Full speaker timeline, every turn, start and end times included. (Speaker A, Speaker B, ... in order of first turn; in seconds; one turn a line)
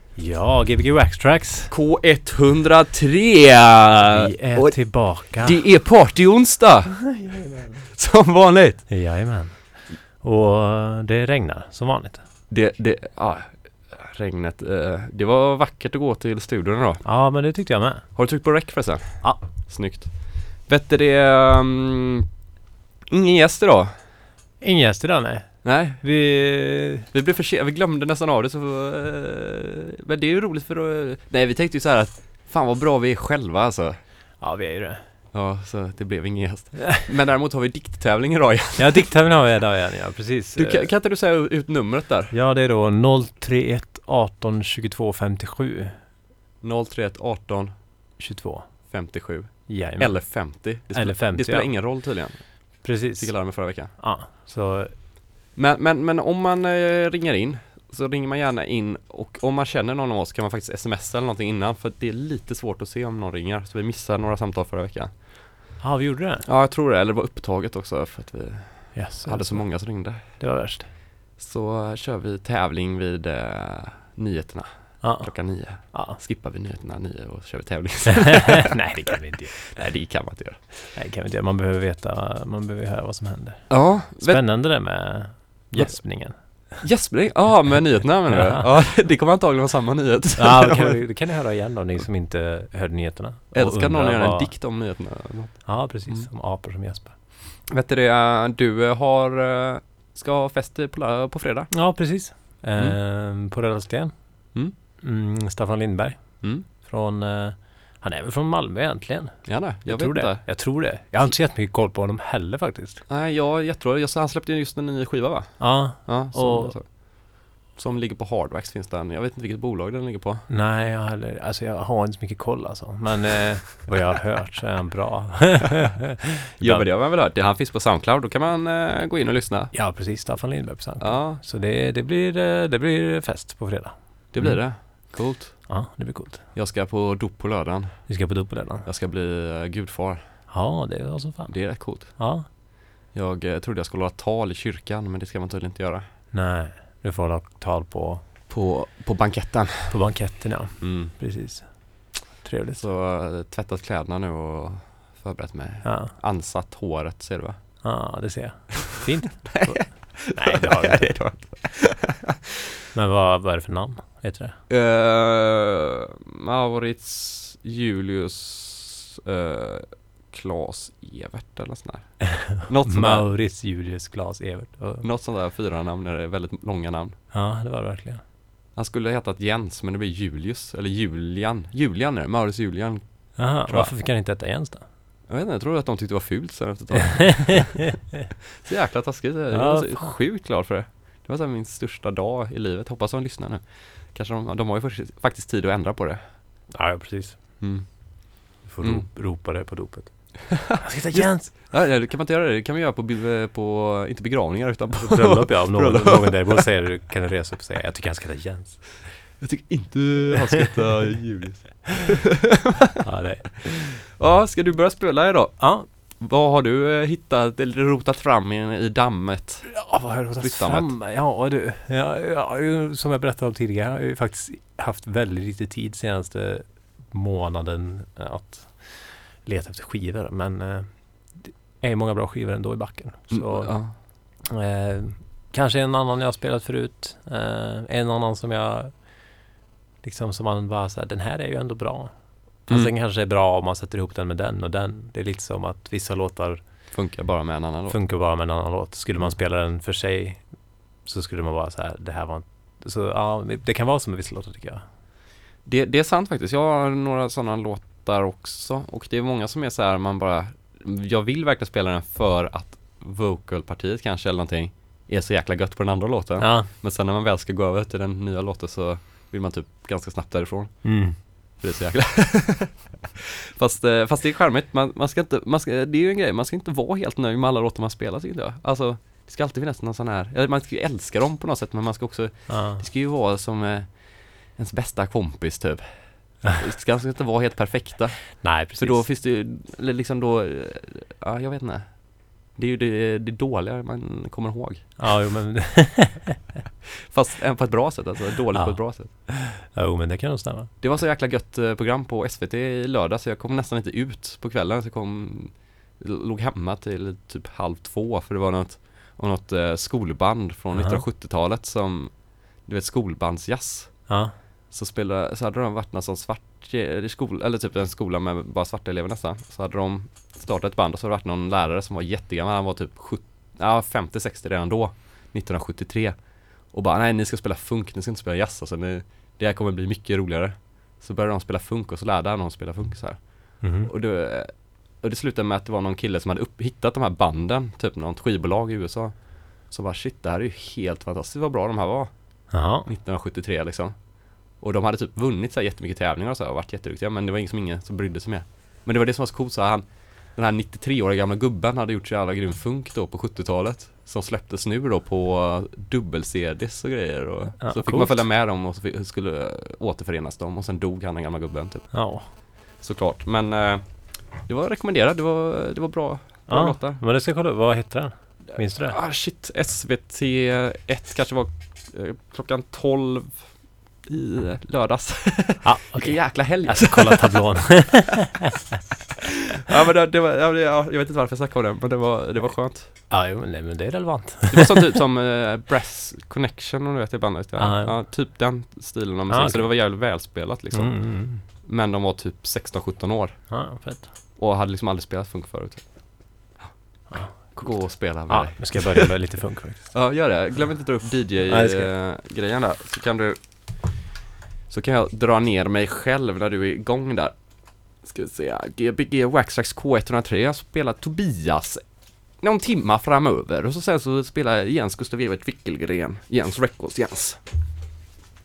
Speaker A: 0.1-1.7
Speaker B: 1.7-7.3
Speaker A: 4.0-5.7
Speaker B: 7.9-8.9
Speaker A: 8.9-12.2
Speaker B: 12.5-17.1
Speaker A: 17.0-18.2
Speaker B: 18.1-22.3
Speaker B: 23.1-24.0
Speaker A: 24.6-27.1
Speaker B: 25.6-26.0
Speaker B: 27.1-34.0
Speaker A: 34.4-35.1
Speaker B: 35.3-39.1
Speaker A: 38.8-40.9
Speaker B: 40.6-42.3
Speaker A: 42.3-46.0
Speaker B: 46.6-47.9
Speaker A: 48.2-48.9
Speaker B: 48.9-54.0
Speaker A: 49.7-52.2
Speaker A: 52.8-55.0
Speaker B: 55.5-65.7
Speaker A: 65.8-66.5
Speaker B: 66.5-70.6
Speaker A: 68.9-70.9
Speaker B: 71.4-78.7
Speaker A: 75.0-76.2
Speaker A: 78.7-79.8
Speaker B: 79.7-80.9
Speaker A: 80.9-86.8
Speaker B: 83.7-84.8
Speaker B: 85.7-91.2
Speaker A: 87.7-88.7
Speaker A: 90.4-94.5
Speaker B: 93.5-96.3
Speaker A: 95.7-97.2
Speaker B: 97.7-102.2
Speaker A: 101.7-113.0
Speaker B: 109.5-111.3
Speaker B: 113.1-120.5
Speaker A: 115.6-116.8
Speaker A: 120.5-126.9
Speaker B: 126.6-129.7
Speaker A: 129.7-136.5
Speaker B: 131.0-131.4
Speaker B: 134.3-136.0
Speaker B: 136.5-140.5
Speaker A: 138.1-138.9
Speaker A: 140.5-142.5
Speaker B: 141.5-142.6
Speaker B: 143.1-146.1
Speaker A: 146.3-148.2
Speaker B: 148.5-150.3
Speaker A: 149.9-152.8
Speaker B: 150.8-151.1
Speaker B: 152.8-157.8
Speaker A: 155.8-156.1
Speaker A: 157.8-161.4
Speaker B: 159.5-162.1
Speaker A: 162.9-164.6
Speaker B: 164.7-173.3
Speaker A: 172.7-175.1
Speaker B: 175.0-177.2
Speaker A: 177.3-178.2
Speaker B: 178.7-183.9
Speaker A: 183.4-184.9
Speaker B: 185.3-187.9
Speaker B: 188.7-196.7
Speaker A: 189.5-190.2
Speaker A: 196.7-197.9
Speaker B: 197.6-199.6
Speaker A: 198.7-201.6
Speaker B: 201.1-206.7
Speaker A: 205.0-209.1
Speaker B: 209.4-212.2
Speaker A: 213.0-214.0
Speaker B: 214.2-221.0
Speaker A: 215.6-215.9
Speaker A: 219.7-239.4
Speaker B: 233.3-234.0
Speaker A: 240.0-246.9
Speaker B: 246.9-248.0
Speaker A: 247.9-254.9
Speaker B: 255.6-273.0
Speaker A: 266.4-266.7
Speaker A: 270.8-271.2
Speaker B: 273.6-295.1
Speaker A: 282.5-282.9
Speaker A: 288.4-289.1
Speaker A: 295.0-296.4
Speaker B: 297.1-299.1
Speaker A: 298.5-300.7
Speaker B: 300.8-367.0
Speaker A: 310.7-311.1
Speaker A: 314.1-314.4
Speaker A: 333.6-333.9
Speaker A: 342.5-342.9
Speaker A: 357.6-358.3
Speaker A: 361.9-362.3
Speaker A: 366.5-369.0
Speaker B: 368.5-377.8
Speaker A: 375.6-378.3
Speaker B: 379.7-383.1
Speaker A: 382.9-384.8
Speaker B: 384.5-393.8
Speaker A: 387.6-388.2
Speaker A: 389.3-391.4
Speaker A: 393.5-394.2
Speaker B: 394.4-404.0
Speaker A: 397.1-400.7
Speaker A: 401.2-401.9
Speaker B: 404.7-417.4